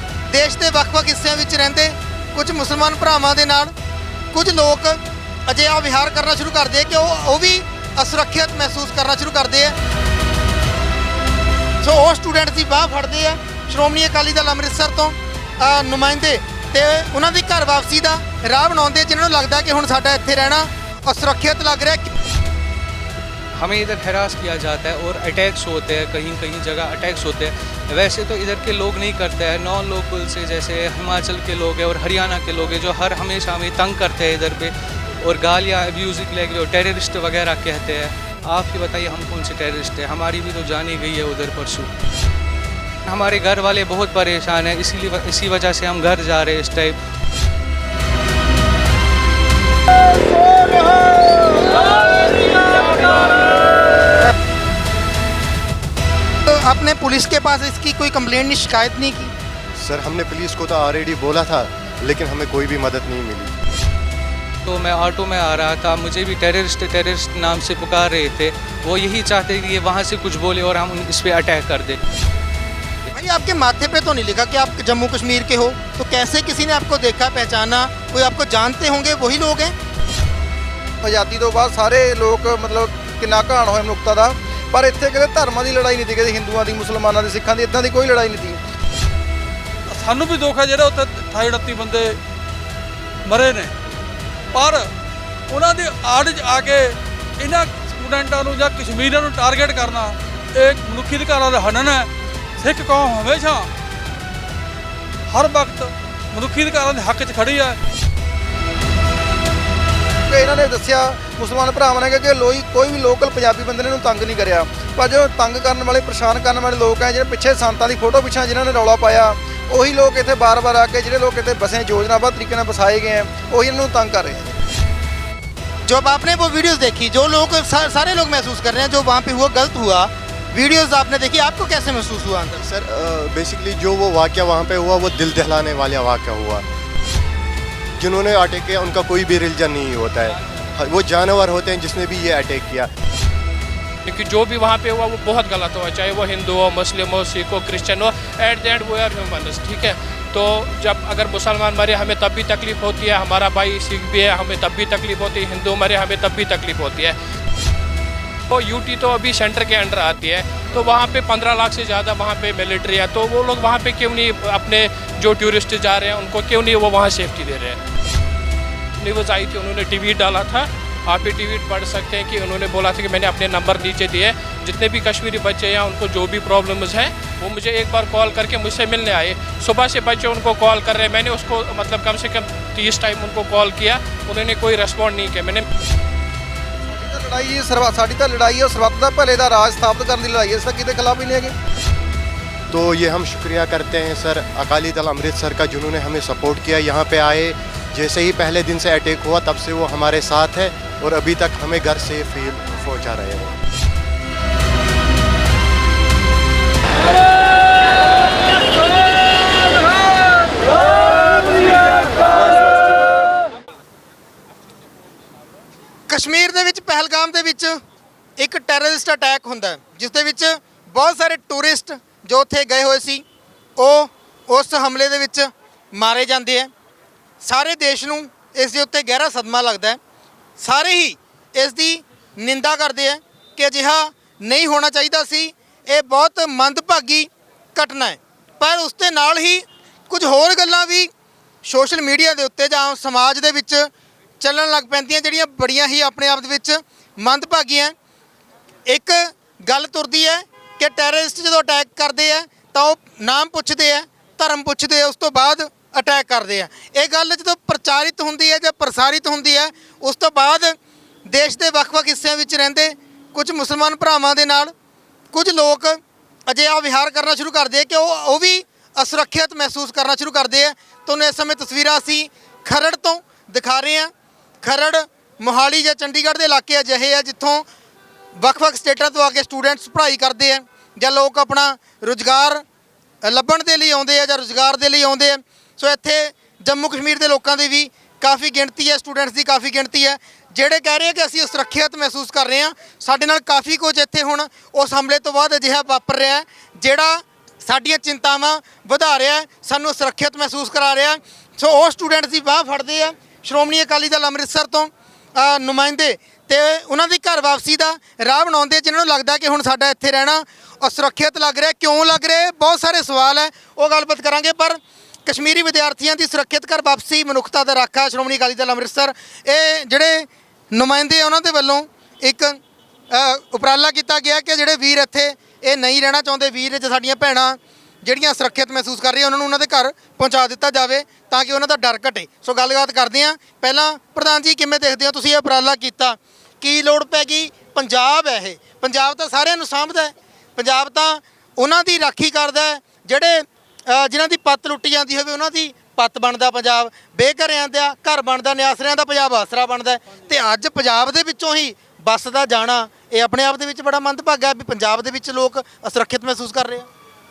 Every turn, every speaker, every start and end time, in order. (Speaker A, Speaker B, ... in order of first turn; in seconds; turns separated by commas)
Speaker A: 0.3-3.7, Speaker A: 4.3-9.8, Speaker A: 11.8-22.1, Speaker B: 23.6-41.9, Speaker B: 43.1-47.0, Speaker A: 56.5-59.3, Speaker C: 59.8-63.6, Speaker B: 64.7-72.0, Speaker A: 73.1-79.8, Speaker D: 81.0-88.6, Speaker E: 89.9-92.2, Speaker E: 93.3-93.7, Speaker E: 94.5-94.9, Speaker E: 95.5-103.7, Speaker E: 105.3-107.8, Speaker D: 110.3-124.6, Speaker A: 125.9-132.6, Speaker C: 132.6-136.6, Speaker C: 138.0-142.9, Speaker F: 144.1-157.2, Speaker F: 158.5-167.8, Speaker F: 169.0-185.7, Speaker D: 186.9-191.5, Speaker C: 192.7-203.6, Speaker A: 216.1-217.8, Speaker A: 218.4-223.2, Speaker A: 223.8-226.7, Speaker A: 227.4-230.0, Speaker A: 230.6-241.1, Speaker A: 241.6-247.9, Speaker A: 248.9-264.7, Speaker A: 265.3-277.7, Speaker A: 278.4-282.6, Speaker A: 283.2-356.9